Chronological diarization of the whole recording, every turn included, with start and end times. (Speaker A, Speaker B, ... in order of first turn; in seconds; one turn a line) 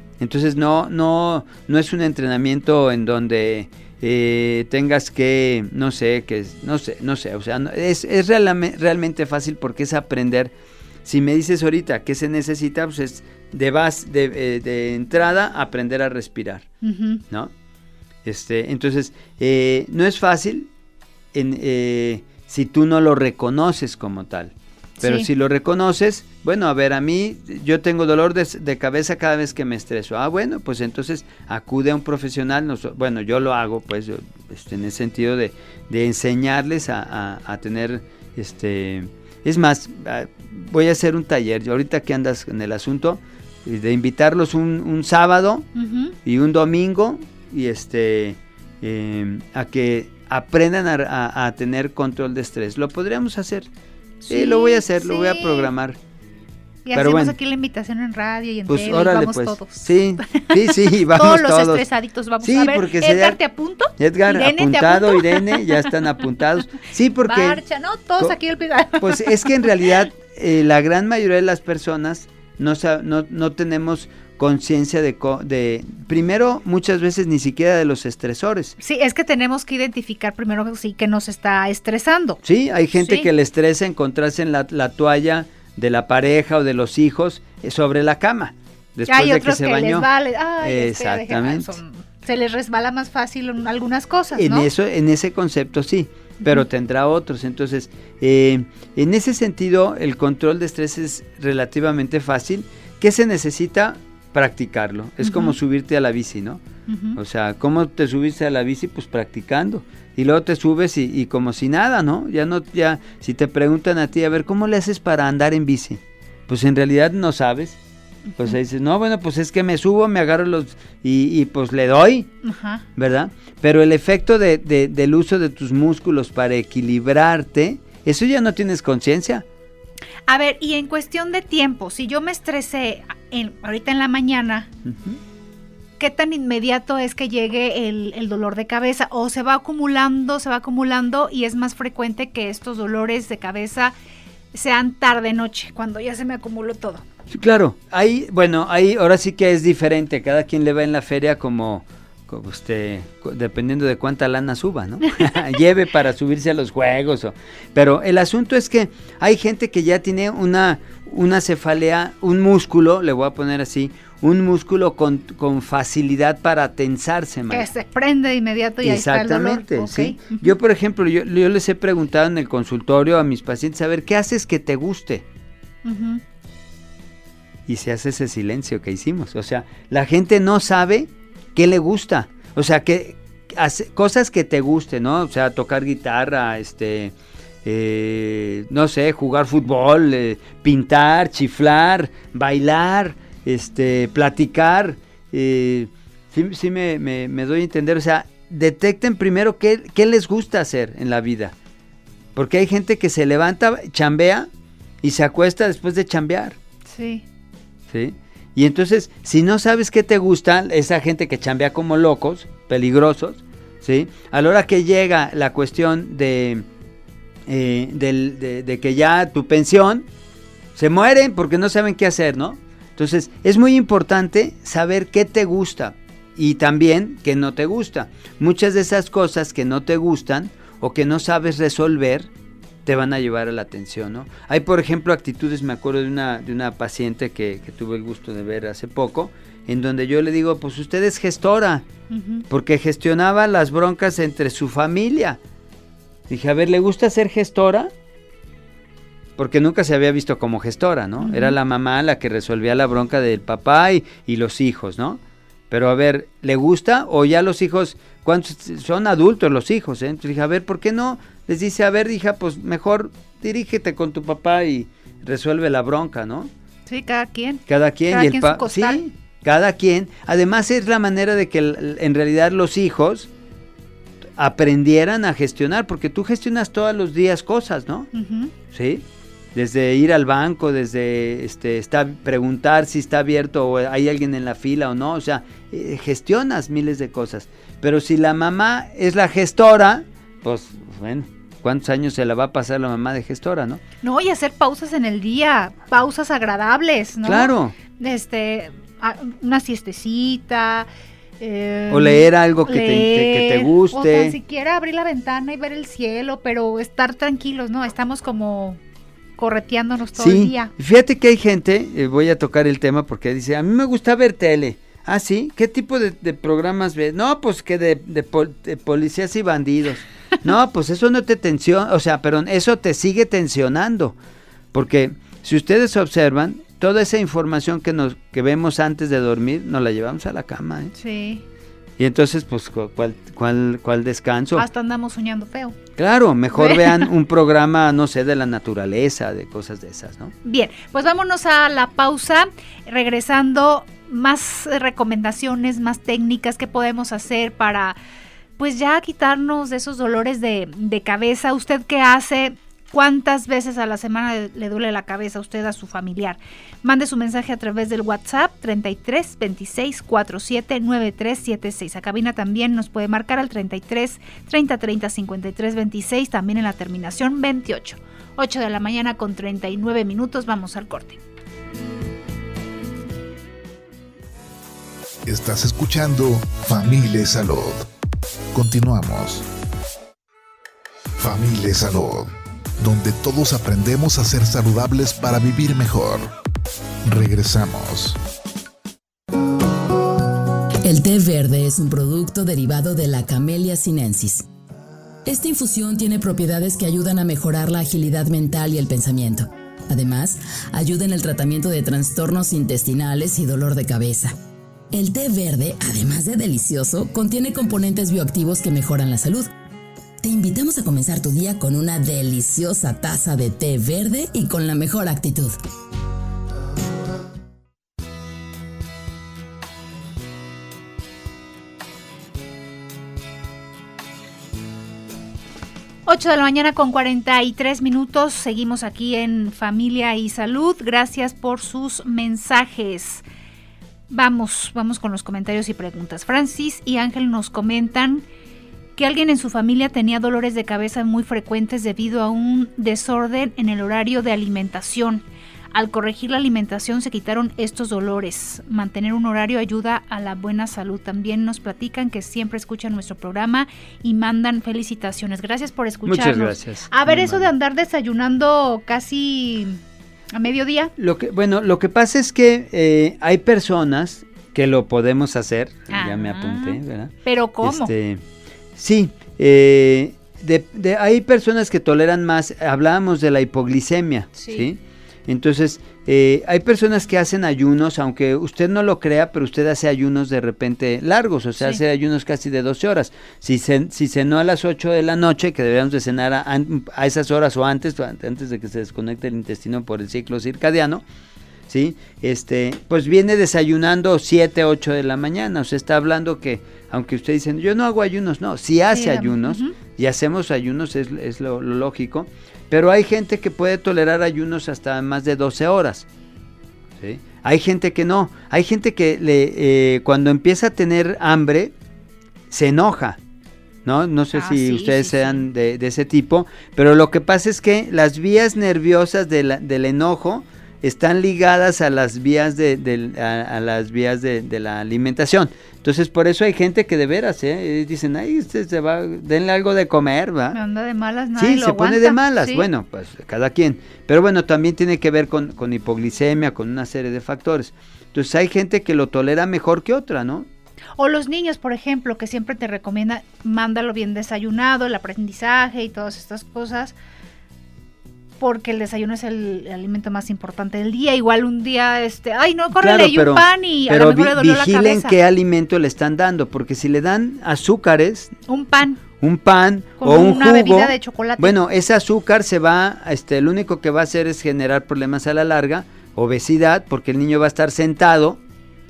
Speaker A: 0.2-10.5
Speaker A: 11.1-16.7
Speaker B: 16.8-17.2
Speaker A: 18.2-20.7
Speaker A: 21.3-45.7
Speaker B: 25.0-25.3
Speaker B: 45.8-46.1
Speaker A: 46.2-53.7
Speaker B: 54.2-55.7
Speaker A: 54.3-56.0
Speaker B: 56.9-65.8
Speaker A: 57.0-57.4
Speaker A: 58.7-61.8
Speaker A: 62.4-63.4
Speaker A: 64.0-67.6
Speaker B: 67.3-69.7
Speaker A: 69.0-78.8
Speaker B: 78.8-82.4
Speaker A: 82.4-90.1
Speaker B: 83.0-83.3
Speaker B: 89.1-94.7
Speaker A: 90.6-91.8
Speaker A: 94.3-106.6
Speaker B: 105.2-105.5
Speaker B: 106.9-107.2
Speaker A: 107.2-117.8
Speaker B: 118.3-118.6
Speaker A: 118.4-122.3
Speaker B: 122.4-122.8
Speaker A: 123.0-129.4
Speaker B: 130.3-134.7
Speaker A: 134.9-135.2
Speaker B: 136.0-143.9
Speaker B: 144.5-147.0
Speaker A: 147.3-167.7
Speaker B: 167.5-170.5
Speaker A: 168.8-175.2
Speaker B: 175.8-176.2
Speaker A: 177.7-187.1
Speaker A: 187.7-201.5
Speaker A: 202.4-204.5
Speaker A: 205.0-206.6
Speaker B: 206.9-207.2
Speaker A: 207.9-216.6
Speaker A: 217.5-220.1
Speaker A: 220.8-232.3
Speaker A: 232.9-241.8
Speaker B: 242.1-242.4
Speaker A: 242.5-245.4
Speaker A: 246.3-247.9
Speaker A: 249.4-266.5
Speaker B: 251.2-251.6
Speaker B: 266.9-269.0
Speaker A: 267.7-273.3
Speaker A: 274.4-278.1
Speaker B: 278.1-278.5
Speaker A: 278.7-279.0
Speaker A: 279.6-293.8
Speaker B: 294.0-300.9
Speaker A: 297.2-297.8
Speaker B: 301.4-308.8
Speaker A: 301.9-304.4
Speaker B: 309.4-310.7
Speaker A: 310.2-324.2
Speaker A: 324.7-330.9
Speaker B: 330.9-331.4
Speaker A: 332.0-334.7
Speaker B: 334.6-335.8
Speaker A: 336.0-340.3
Speaker B: 336.5-337.1
Speaker B: 340.4-348.0
Speaker B: 348.6-371.2
Speaker C: 375.3-377.9
Speaker C: 378.5-379.5
Speaker C: 381.2-386.3
Speaker C: 387.1-388.2
Speaker D: 390.8-394.5
Speaker D: 395.3-404.3
Speaker D: 404.9-409.5
Speaker D: 410.2-415.6
Speaker B: 426.1-433.2
Speaker B: 434.1-438.2
Speaker B: 439.0-459.8
Speaker A: 456.1-457.5
Speaker B: 460.3-460.9
Speaker A: 461.0-468.2
Speaker B: 465.9-467.9
Speaker A: 468.8-491.0
Speaker B: 474.4-474.7
Speaker A: 491.7-506.1
Speaker B: 498.9-499.8
Speaker A: 507.0-511.7
Speaker A: 512.5-513.2
Speaker A: 513.9-530.6
Speaker B: 514.3-515.5
Speaker B: 530.5-532.7
Speaker A: 531.4-540.5
Speaker B: 541.0-547.0
Speaker B: 548.4-555.1
Speaker A: 552.8-558.4
Speaker B: 558.5-559.0
Speaker A: 559.2-568.4
Speaker B: 560.0-561.5